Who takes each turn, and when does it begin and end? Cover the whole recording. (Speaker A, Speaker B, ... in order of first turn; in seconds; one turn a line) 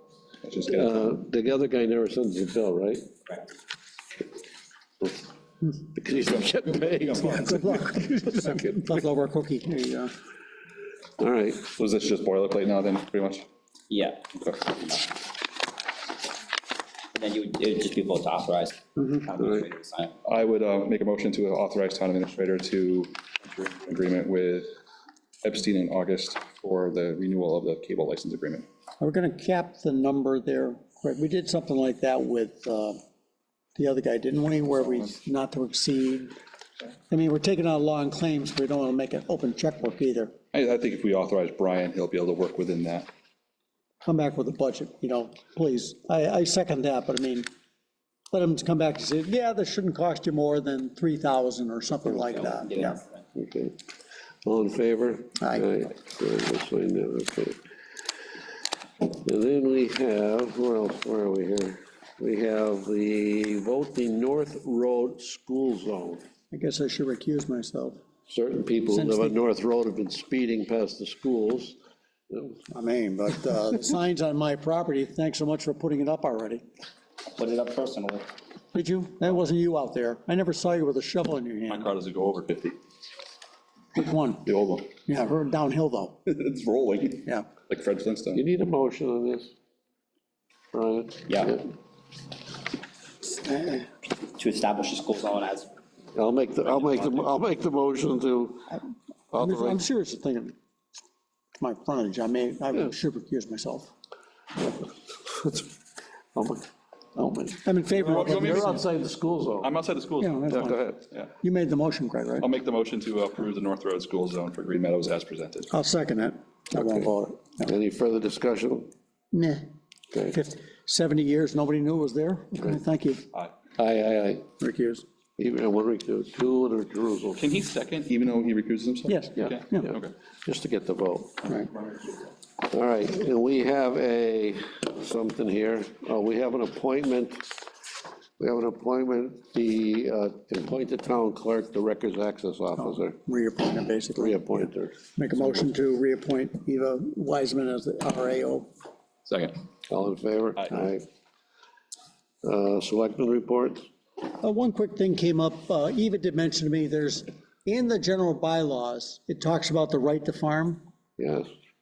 Speaker A: 0.4-1.1
Speaker B: 0.7-3.1
Speaker B: 5.9-7.9
Speaker A: 6.3-7.4
Speaker C: 7.2-10.1
Speaker B: 11.2-11.7
Speaker A: 11.6-13.5
Speaker D: 13.9-15.1
Speaker D: 17.1-20.1
Speaker A: 20.2-24.7
Speaker A: 25.4-28.7
Speaker C: 29.0-33.0
Speaker C: 33.8-36.4
Speaker C: 37.1-40.3
Speaker A: 40.5-43.1
Speaker C: 44.0-47.5
Speaker C: 48.3-53.0
Speaker D: 52.2-53.2
Speaker B: 53.4-53.8
Speaker B: 54.4-57.6
Speaker C: 55.4-55.7
Speaker B: 59.0-66.3
Speaker C: 66.5-68.0
Speaker B: 68.3-71.8
Speaker C: 68.9-69.3
Speaker B: 72.3-72.6
Speaker C: 72.7-76.6
Speaker D: 77.3-78.3
Speaker C: 78.7-81.9
Speaker A: 81.7-82.8
Speaker C: 84.0-84.5
Speaker A: 84.5-84.9
Speaker C: 85.0-86.2
Speaker A: 86.3-88.4
Speaker B: 88.3-89.5
Speaker B: 90.7-91.6
Speaker D: 91.3-91.6
Speaker C: 93.3-93.9
Speaker D: 94.2-95.7
Speaker B: 96.2-99.9
Speaker A: 96.7-97.3
Speaker C: 99.3-100.6
Speaker C: 101.6-103.9
Speaker B: 104.6-105.7
Speaker B: 106.3-106.7
Speaker B: 107.2-109.7
Speaker C: 107.5-108.8
Speaker A: 108.0-108.9
Speaker A: 109.6-110.6
Speaker C: 110.2-110.8
Speaker B: 110.5-111.0
Speaker C: 111.4-112.5
Speaker A: 112.4-115.7
Speaker C: 115.7-117.7
Speaker B: 116.8-117.1
Speaker B: 117.6-118.9
Speaker C: 119.3-119.7
Speaker B: 120.1-120.4
Speaker C: 120.3-123.2
Speaker B: 123.8-124.5
Speaker C: 124.6-125.0
Speaker B: 125.4-127.4
Speaker A: 127.4-130.1
Speaker C: 129.1-129.9
Speaker B: 129.4-129.9
Speaker B: 130.4-131.6
Speaker B: 132.7-137.5
Speaker B: 138.4-143.2
Speaker C: 142.8-148.7
Speaker B: 144.2-145.7
Speaker A: 149.3-149.6
Speaker B: 149.9-151.1
Speaker B: 152.4-153.9
Speaker C: 154.3-160.8
Speaker B: 161.2-161.5